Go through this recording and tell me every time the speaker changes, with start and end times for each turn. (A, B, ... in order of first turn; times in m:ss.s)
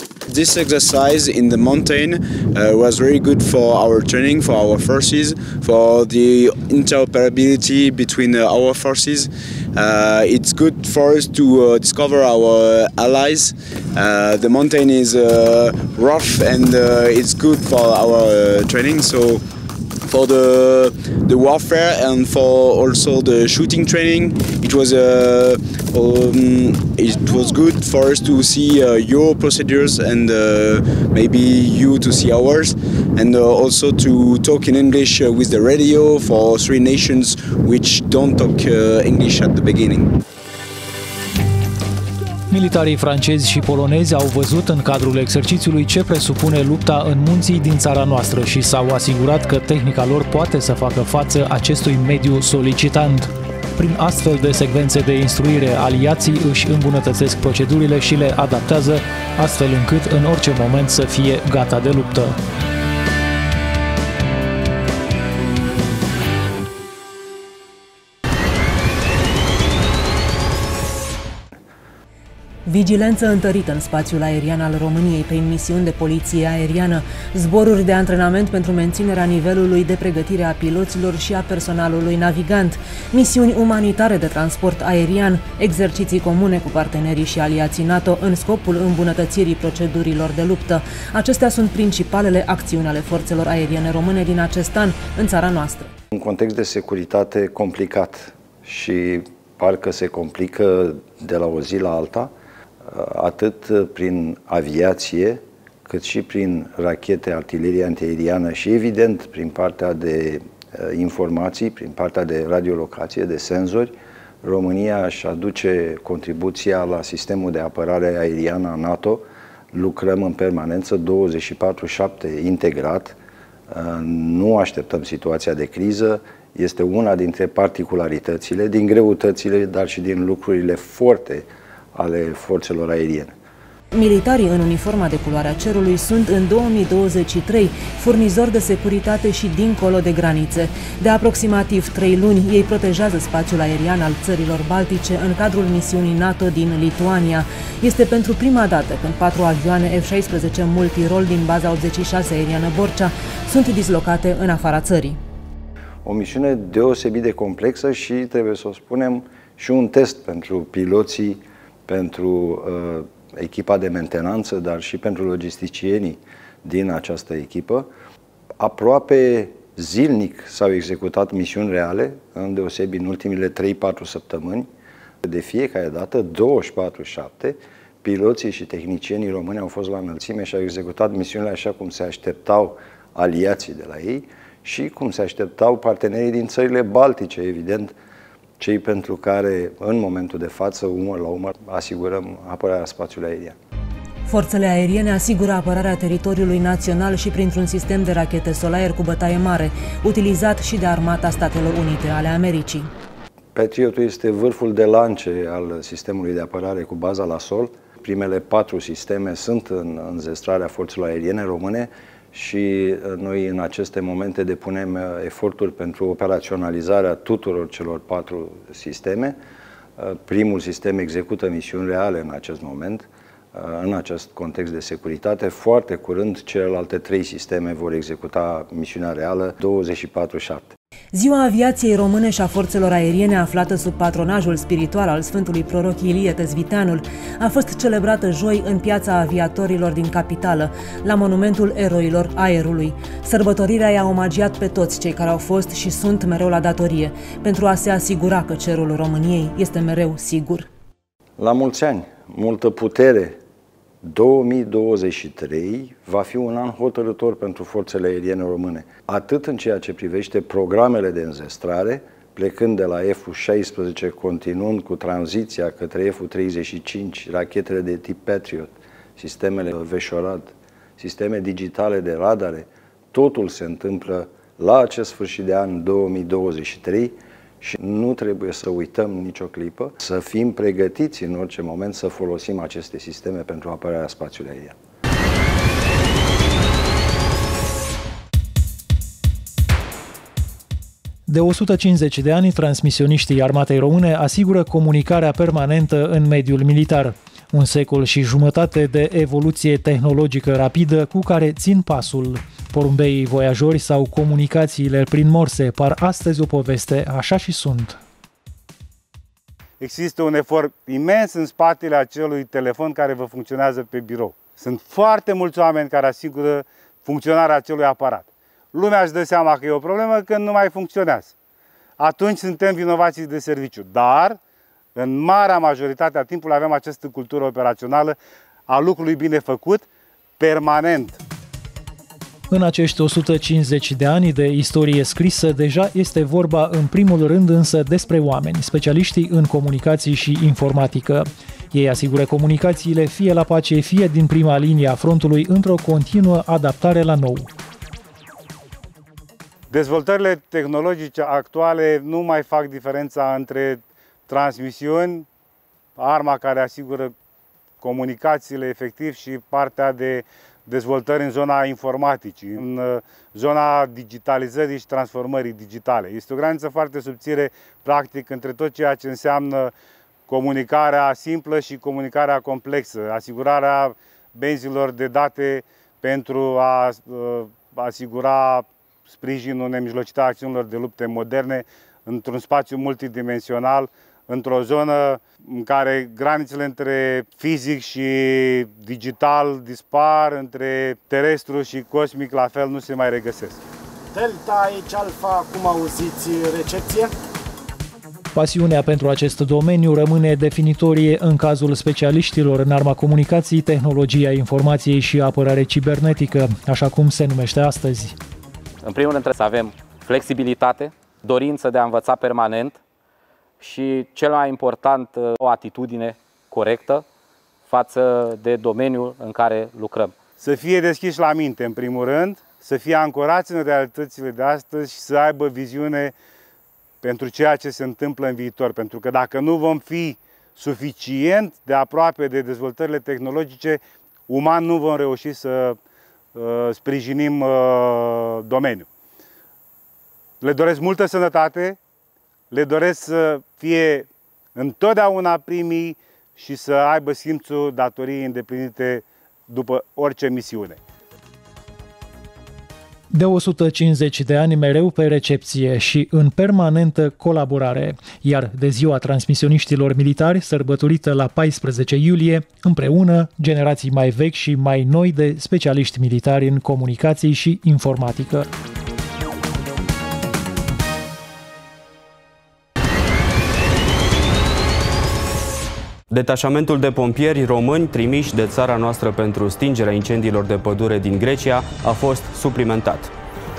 0:00.3-0:19.4 A
0:20.0-0:40.1 A
0:42.5-1:02.4 B
1:12.7-1:35.9 C
1:36.1-1:42.3 D
1:42.8-2:03.2 D
2:03.7-2:13.4 D
2:13.9-2:35.2 C
2:36.0-2:47.9 D
2:48.6-2:54.7 D
2:55.2-3:08.0 D
3:08.6-3:13.6 D
3:14.2-3:22.9 C
3:23.5-3:39.4 D
3:40.0-3:50.7 D
3:51.1-4:10.7 C
4:11.4-4:13.4 D
4:14.0-4:44.8 D
4:51.3-5:08.0 B
5:09.8-5:21.3 E
5:22.0-5:24.4 E
5:24.9-5:28.2 E
5:28.7-5:29.9 E
5:30.4-5:31.2 E
5:32.5-5:47.5 B
5:49.7-5:55.3 E
5:56.0-5:57.1 E
5:57.8-6:09.7 E
6:10.3-6:33.6 E
6:34.2-6:37.0 F
6:38.3-6:48.1 B
6:48.8-6:52.8 G
6:53.6-6:57.0 G
6:57.7-7:00.1 G
7:00.4-7:06.1 E
7:07.0-7:15.8 E
7:16.4-7:18.9 E
7:20.4-7:21.8 E
7:22.5-7:30.8 E
7:33.1-7:48.5 B
7:56.1-8:03.1 H